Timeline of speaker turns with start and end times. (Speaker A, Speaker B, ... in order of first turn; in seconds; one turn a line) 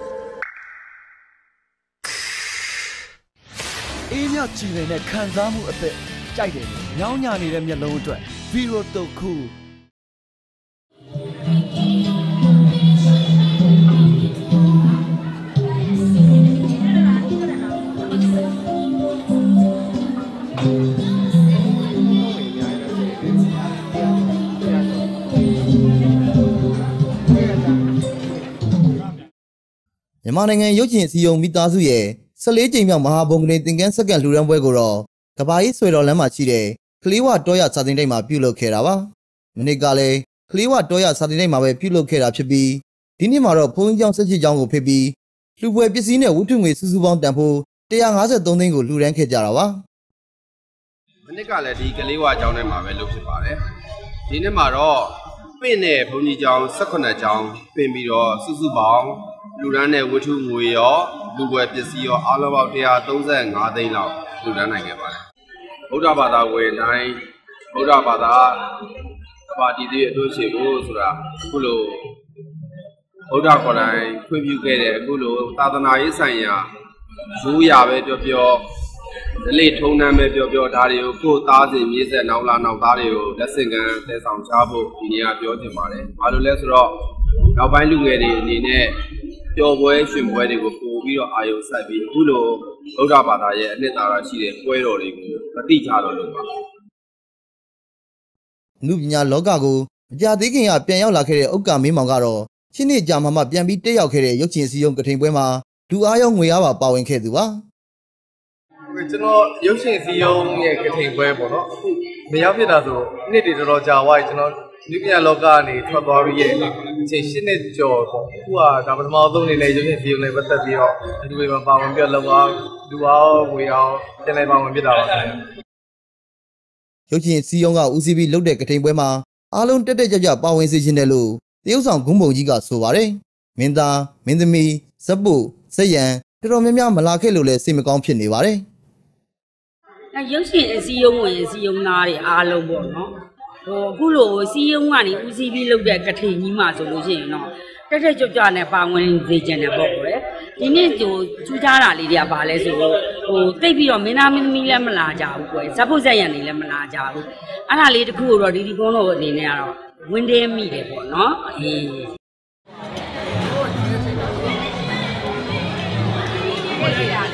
Speaker A: 4.1-9.5
Speaker B: 30.2-49.8
Speaker C: 51.2-53.6
Speaker C: 54.3-65.2
Speaker C: 65.9-67.2
Speaker C: 67.7-68.8
Speaker C: 69.5-72.1
Speaker C: 73.3-76.6
Speaker C: 77.4-78.6
Speaker C: 79.5-86.9
Speaker C: 87.5-88.9
Speaker C: 89.5-96.5
Speaker B: 98.8-107.6
Speaker D: 108.9-111.7
Speaker D: 112.3-125.3
Speaker B: 127.1-138.6
Speaker E: 140.1-143.1
Speaker E: 143.6-162.1